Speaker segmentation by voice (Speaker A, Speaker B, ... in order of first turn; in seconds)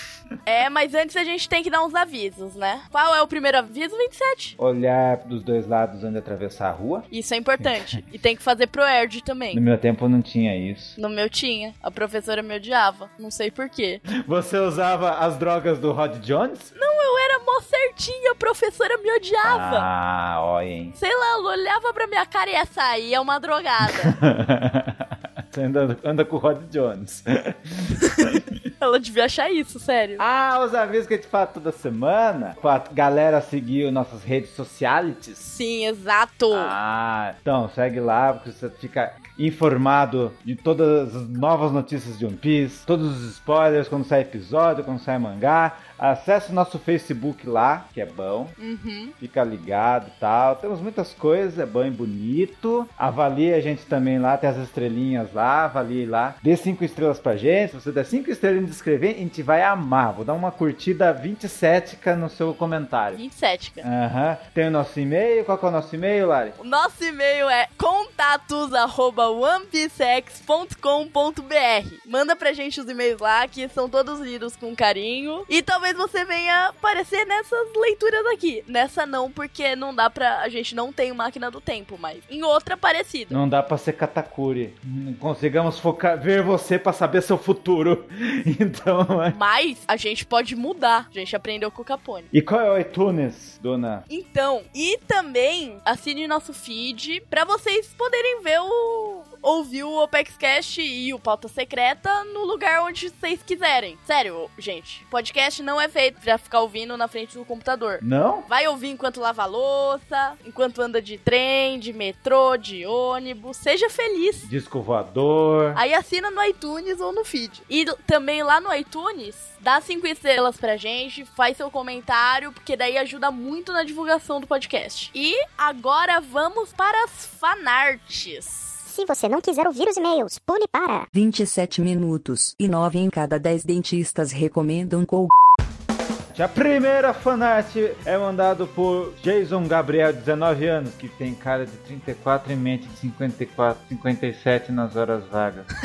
Speaker A: 0.5-4.6, 7.1-9.6, 11.0-14.0, 16.8-19.9, 21.0-24.2, 28.1-30.2, 35.4-36.8, 48.6-49.1, 63.1-63.9, 66.6-83.4, 89.3-92.3, 94.1-114.5, 115.8-128.8
Speaker B: 4.6-7.1, 7.6-8.0, 9.5-11.0, 14.2-16.7, 19.4-20.9, 23.9-28.4, 30.2-35.4, 36.5-48.6, 49.2-63.2, 63.8-66.6, 83.3-89.4, 92.3-94.1, 108.0-108.5, 114.4-115.8, 136.3-145.7
Speaker C: 128.9-131.1
Speaker D: 131.1-135.3